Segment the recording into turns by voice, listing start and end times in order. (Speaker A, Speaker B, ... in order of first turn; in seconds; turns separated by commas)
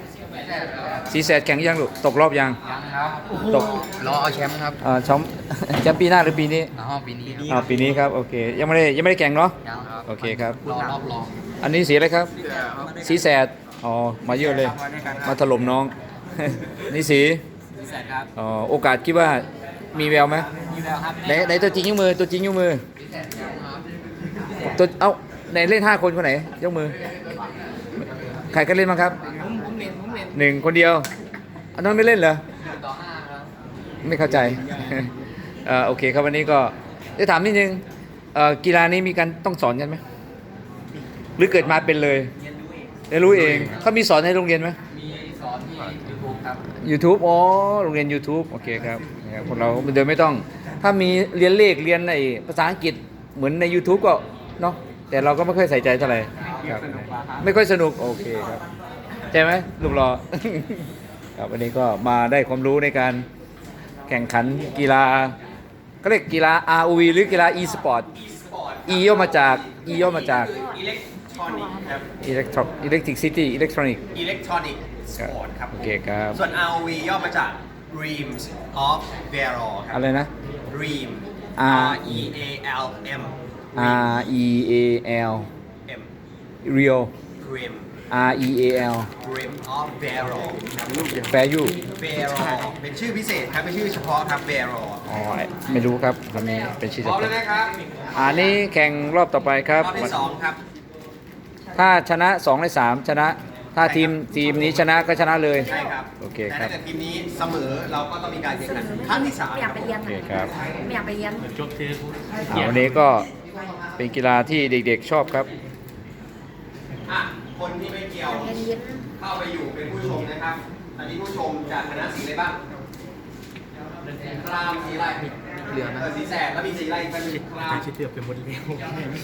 Speaker A: 0.4-1.1, Speaker B: 1.1-2.6, Speaker A: 2.6-4.8, Speaker B: 3.5-3.8, Speaker B: 4.8-6.7, Speaker A: 6.7-7.9, Speaker B: 7.5-10.6, Speaker A: 9.7-11.4, Speaker B: 11.6-12.3, Speaker A: 12.4-13.1, Speaker B: 12.9-17.4, Speaker A: 14.5-15.3, Speaker A: 17.8-18.3, Speaker B: 18.4-20.5, Speaker A: 20.6-21.4, Speaker B: 21.2-22.8, Speaker A: 23.0-23.8, Speaker B: 24.6-27.0, Speaker B: 28.5-29.2, Speaker A: 29.3-30.3, Speaker B: 30.3-31.1, Speaker B: 31.8-32.4, Speaker A: 32.6-33.5, Speaker B: 34.0-35.1, Speaker B: 35.6-40.0, Speaker B: 41.4-42.3, Speaker B: 43.1-44.8, Speaker A: 44.9-46.6, Speaker B: 46.6-58.6, Speaker A: 56.6-57.3, Speaker B: 59.3-63.2, Speaker B: 64.1-65.3, Speaker B: 66.0-68.1, Speaker C: 68.1-72.1, Speaker B: 68.9-70.5, Speaker B: 72.2-74.0, Speaker C: 74.1-80.0, Speaker B: 75.2-76.4, Speaker B: 79.9-80.3, Speaker C: 80.7-84.3, Speaker B: 81.6-82.2, Speaker B: 83.8-85.5, Speaker B: 86.6-87.1, Speaker C: 87.4-87.9, Speaker B: 88.1-89.1, Speaker C: 89.2-91.3, Speaker B: 91.3-91.8, Speaker C: 92.0-95.0, Speaker B: 95.1-97.3, Speaker C: 97.0-98.5, Speaker B: 98.2-100.1, Speaker C: 99.8-100.6, Speaker B: 101.8-106.7, Speaker C: 103.8-104.6, Speaker C: 105.6-110.0, Speaker D: 108.9-111.5, Speaker B: 110.0-110.5, Speaker A: 111.7-112.5, Speaker B: 112.5-113.3, Speaker B: 114.0-115.5, Speaker C: 117.1-118.6, Speaker D: 118.5-119.0, Speaker C: 119.2-122.6, Speaker C: 124.3-127.9, Speaker A: 127.9-129.0